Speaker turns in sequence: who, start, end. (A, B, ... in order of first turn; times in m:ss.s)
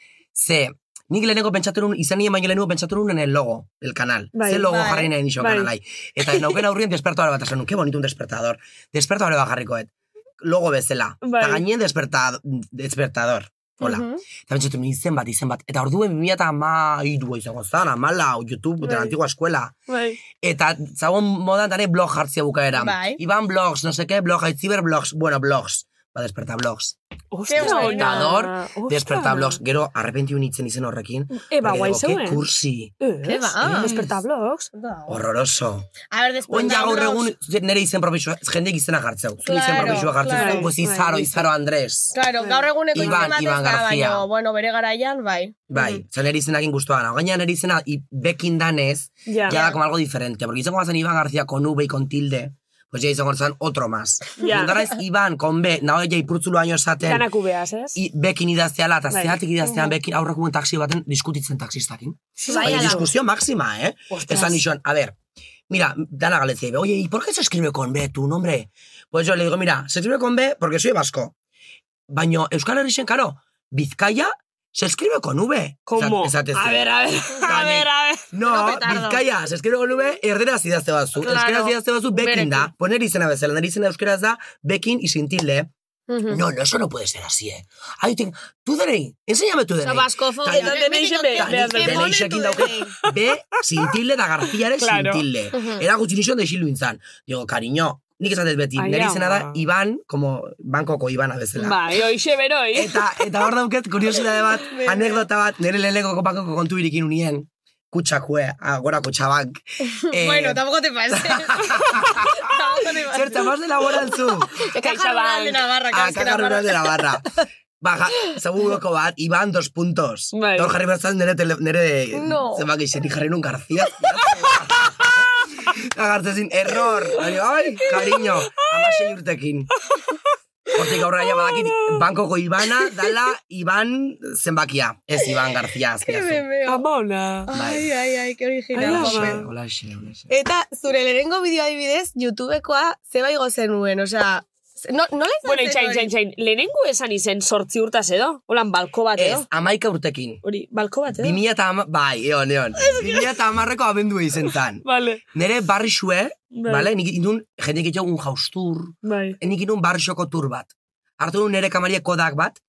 0:00.3-0:19.8 A
0:04.3-0:04.8 B
0:04.7-0:05.1 C
0:05.4-0:05.7 B
0:11.2-0:11.6 B
0:13.8-0:14.2 C
0:19.9-0:20.2 B
0:20.4-0:27.0 A
0:22.7-0:23.2 C
0:27.3-0:29.6 B
0:27.5-0:28.3 C
0:27.6-0:32.9 A
0:31.3-0:32.4 B
0:33.0-0:34.7 B
0:33.2-0:34.1 C
0:33.6-0:33.9 A
0:34.7-0:35.2 C
0:35.1-0:35.9 A
0:36.1-0:37.3 C
0:36.5-0:42.2 A
0:39.4-0:40.7 C
0:39.7-0:41.5 B
0:42.1-0:46.0 C
0:42.4-0:43.3 B
0:42.9-0:44.3 A
0:45.7-0:57.2 A
0:49.3-0:49.6 B
0:49.5-0:49.8 C
0:54.4-0:54.8 B
0:57.0-0:58.0 B
0:58.0-1:05.2 A
0:59.1-0:59.4 B
0:59.7-0:59.9 C
1:02.4-1:03.1 B
1:02.4-1:03.0 C
1:04.1-1:04.6 B
1:05.7-1:11.3 A
1:12.1-1:16.9 A
1:15.9-1:18.3 B
1:17.4-1:25.7 A
1:18.5-1:19.2 C
1:21.2-1:22.7 C
1:26.1-1:26.4 C
1:26.3-1:30.8 A
1:29.8-1:32.9 C
1:30.5-1:32.1 B
1:31.3-1:41.9 A
1:34.8-1:35.2 B
1:35.5-1:35.8 C
1:38.8-1:39.6 B
1:41.6-1:43.3 B
1:42.8-1:52.4 A
1:44.7-1:45.2 C
1:50.1-1:57.2 C
1:53.1-1:54.5 A
1:54.8-1:55.7 B
1:55.9-1:57.2 A
1:57.8-2:09.7 A
2:00.3-2:00.7 B
2:02.1-2:02.7 C
2:07.2-2:09.0 B
2:09.8-2:10.2 B
2:10.8-2:16.4 A
2:11.2-2:12.0 B
2:12.7-2:13.1 B
2:16.0-2:16.8 C
2:16.7-2:17.5 B
2:17.5-2:19.4 C
2:17.5-2:17.9 A
2:18.8-2:19.4 B
2:18.8-2:20.3 A
2:20.3-2:26.1 C
2:25.4-2:29.5 B
2:29.2-2:30.4 A
2:30.4-2:31.4 B
2:31.2-2:42.6 A
2:32.8-2:33.3 B
2:34.8-2:35.2 B
2:36.5-2:36.9 B
2:39.0-2:39.4 B